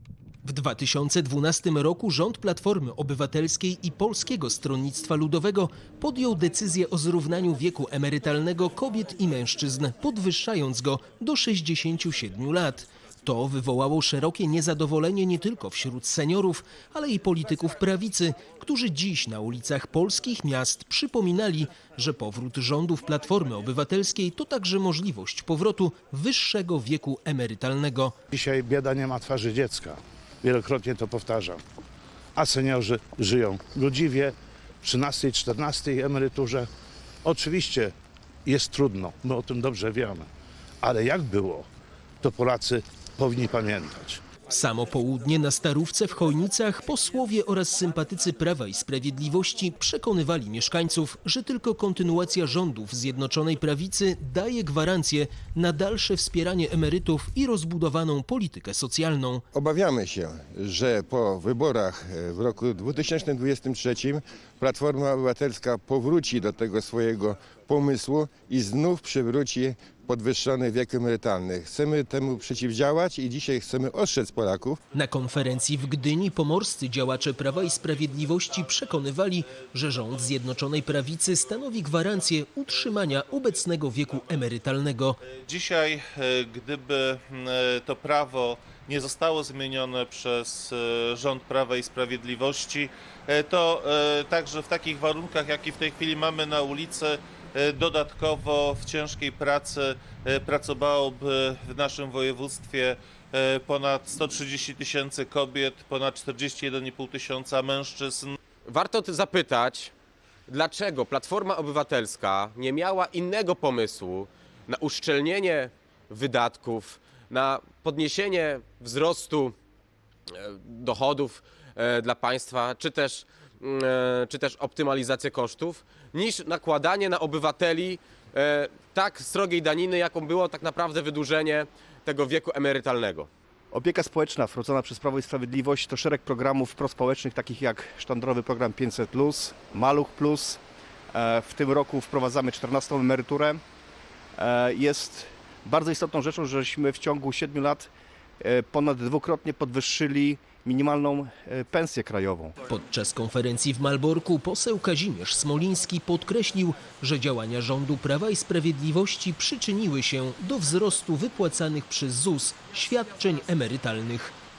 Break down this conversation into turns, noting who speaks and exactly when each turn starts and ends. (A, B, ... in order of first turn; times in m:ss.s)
0:00.4-0:28.2 A
0:28.3-0:31.6 B
0:32.4-0:36.7 B
0:37.2-0:37.9 B
0:38.4-0:40.3 B
0:40.8-0:41.7 B
0:42.2-0:44.2 B
0:44.5-0:59.4 A
0:59.5-1:14.8 C
1:14.9-1:25.2 A
1:25.4-1:48.4 D
1:48.6-1:49.9 E
1:50.5-1:59.6 E
2:00.3-2:13.3 E
2:13.7-2:20.6 F
2:21.1-2:23.6 F
2:24.4-2:27.9 F
2:28.4-2:32.5 F
2:32.7-2:44.3 A